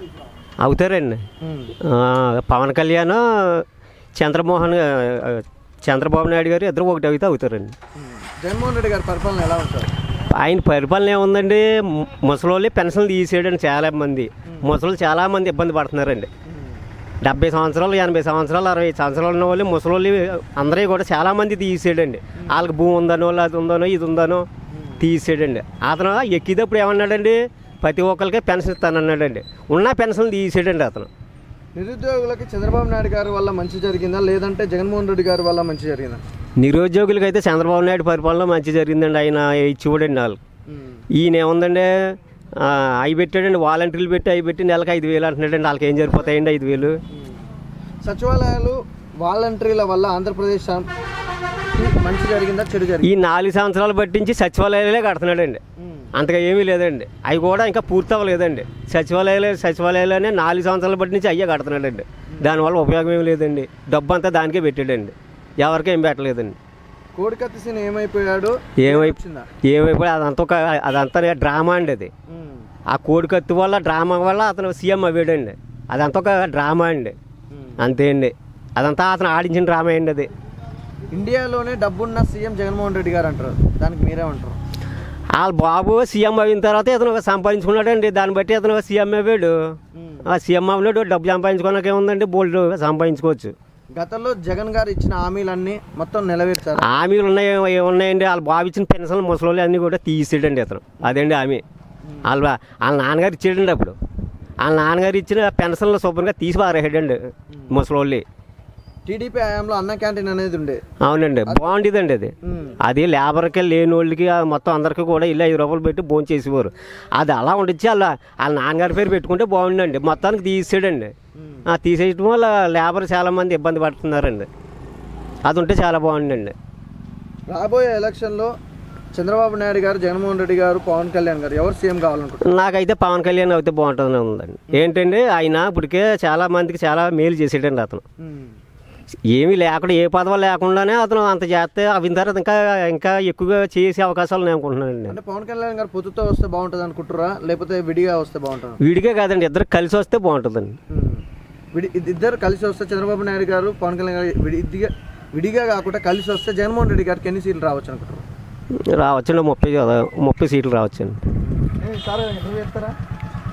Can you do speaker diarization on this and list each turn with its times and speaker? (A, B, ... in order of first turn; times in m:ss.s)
0:00.6-0:01.2 A
0:01.4-0:01.7 B
0:01.8-0:07.7 A
0:08.0-0:09.9 B
0:10.3-0:16.3 A
0:14.4-0:14.7 B
0:16.5-0:16.8 B
0:17.2-0:24.5 A
0:24.7-0:25.0 B
0:25.0-0:31.1 A
0:31.7-0:36.2 B
0:36.6-0:40.4 A
0:40.7-0:41.0 B
0:41.1-0:47.0 A
0:47.1-0:47.4 B
0:48.0-0:50.9 B
0:51.7-0:53.1 B
0:53.0-0:55.6 A
0:55.8-0:56.1 B
0:56.1-1:06.6 A
1:07.1-1:09.5 B
1:08.8-1:12.1 A
1:12.3-1:12.7 B
1:12.9-1:17.2 A
1:17.5-1:17.8 B
1:17.8-1:20.3 A
1:21.1-1:24.6 B
1:25.4-1:29.7 A
1:29.9-1:30.3 B
1:30.3-1:33.5 A
1:33.9-1:36.9 B
1:36.8-1:41.6 A
1:42.2-1:44.0 A
1:44.6-1:48.2 A
1:47.5-1:47.8 B
1:49.0-1:50.8 B
1:51.0-2:01.1 A
1:52.4-1:52.8 B
2:01.4-2:01.7 B
2:01.7-2:04.5 A
2:05.4-2:06.5 A
2:07.5-2:08.5 B
2:09.1-2:12.6 B
2:12.4-2:18.0 A
2:18.2-2:18.6 B
2:19.3-2:25.2 A
2:25.1-2:28.8 B
2:28.8-2:30.8 A
2:30.9-2:38.2 B
2:38.9-2:41.2 A
2:41.5-2:43.0 B